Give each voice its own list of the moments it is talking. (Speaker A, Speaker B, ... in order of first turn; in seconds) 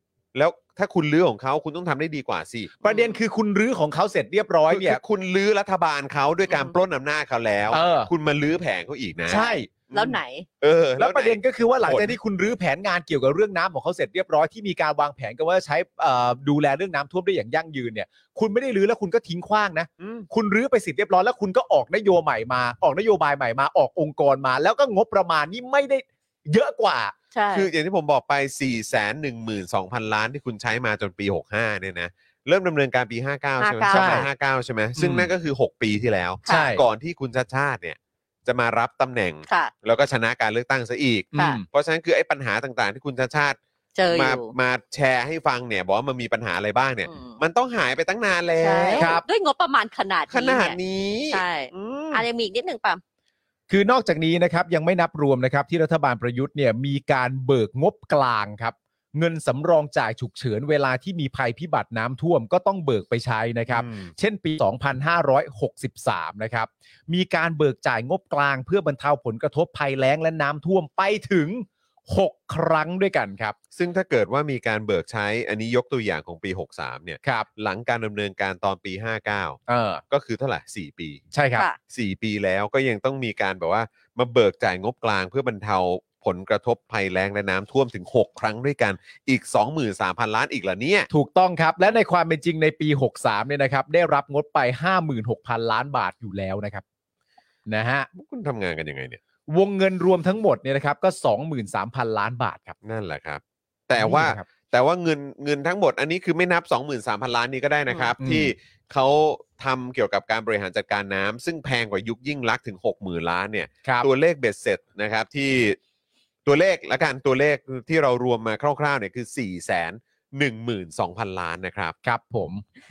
Speaker A: 0.3-2.7, 4.7-12.2, 20.0-20.3, 27.5-43.6, 44.1-49.1, 50.3-52.2, 63.7-64.1, 73.7-81.2, 81.9-91.1, 98.1-99.2, 102.8-115.8, 116.5-122.0
Speaker B: 2.8-5.0, 7.7-8.1, 9.3-9.7, 11.0-27.1, 33.9-34.3, 35.0-35.3, 36.5-36.8, 41.3-41.7, 49.0-49.2, 53.7-73.6, 79.7-80.0, 81.3-81.7, 91.1-96.8, 97.7-98.1, 99.5-102.8, 104.0-104.4, 108.2-108.5, 122.0-122.6
Speaker C: 2.8-3.2, 6.5-6.8, 9.3-10.5, 27.3-27.7, 33.6-34.3, 36.5-36.7, 44.0-44.5, 47.1-47.4, 48.6-50.8, 51.3-53.0, 107.9-108.1